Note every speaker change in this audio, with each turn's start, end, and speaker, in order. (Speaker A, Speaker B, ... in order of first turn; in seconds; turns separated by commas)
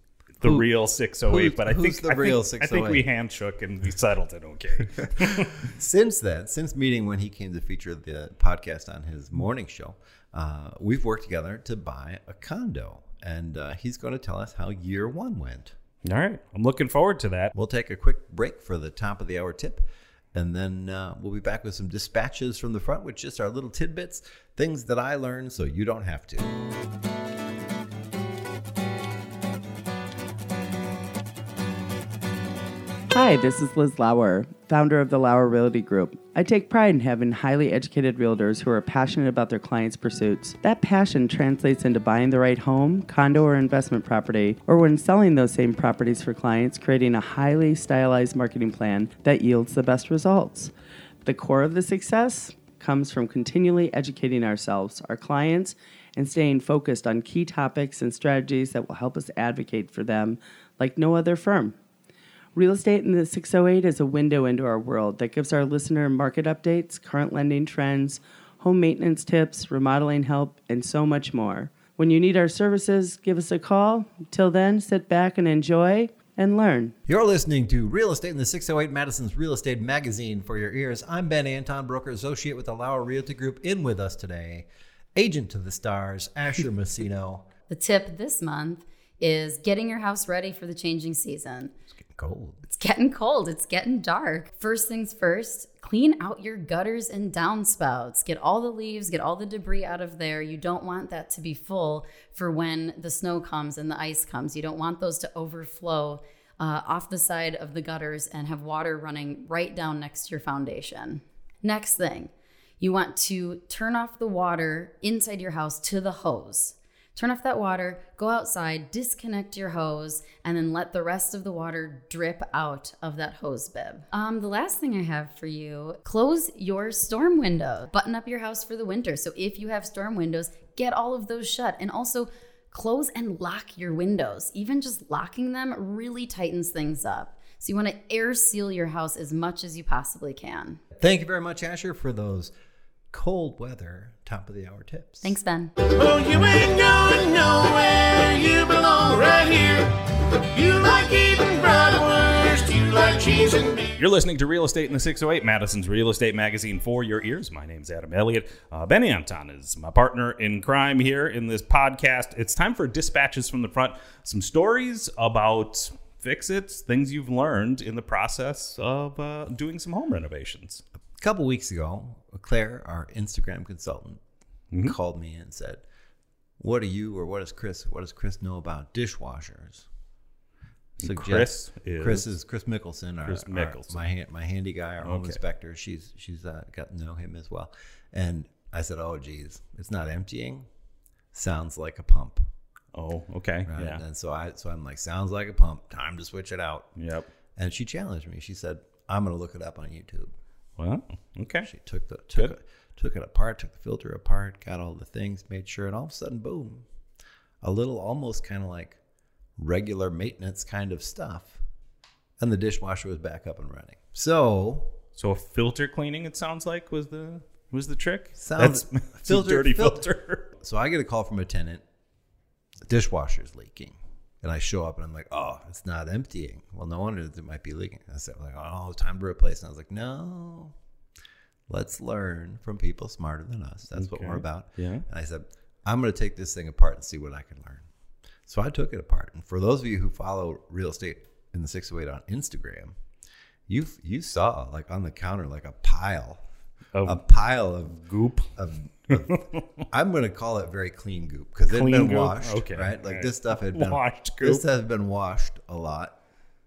Speaker A: 0.4-5.6, Speaker B: 1.3-3.0, Speaker B: 5.6-15.8, Speaker A: 16.0-17.5, Speaker B: 17.5-26.5, Speaker C: 33.1-50.7, Speaker C: 51.2-61.7, Speaker C: 62.5-76.9, Speaker B: 77.1-87.5, Speaker D: 87.7-91.7, Speaker B: 92.0-92.6, Speaker D: 92.7-140.8, Speaker B: 141.0-142.5, Speaker B: 143.1-145.3, Speaker D: 145.2-145.7, Speaker E: 145.9-153.9, Speaker A: 154.0-170.8, Speaker B: 171.2-174.2, Speaker B: 174.8-175.8, Speaker B: 176.6-179.9, Speaker A: 181.0-182.3, Speaker B: 181.0-190.7, Speaker A: 183.2-184.0, Speaker A: 185.0-185.4, Speaker B: 191.3-192.5, Speaker A: 192.9-194.0, Speaker B: 193.7-196.9, Speaker A: 197.0-197.3, Speaker B: 197.6-200.3, Speaker A: 200.8-201.7, Speaker B: 201.6-206.8, Speaker B: 207.6-209.0, Speaker B: 209.6-211.6, Speaker B: 212.4-214.9, Speaker A: 215.2-220.4, Speaker B: 218.4-221.8, Speaker B: 222.9-230.7, Speaker B: 231.7-237.9, Speaker A: 233.9-235.0, Speaker B: 238.5-242.9, Speaker B: 243.7-246.4, Speaker A: 246.9-247.2, Speaker B: 247.0-248.0, Speaker A: 248.0-248.5, Speaker B: 248.6-256.1, Speaker A: 249.1-249.6, Speaker A: 251.7-254.6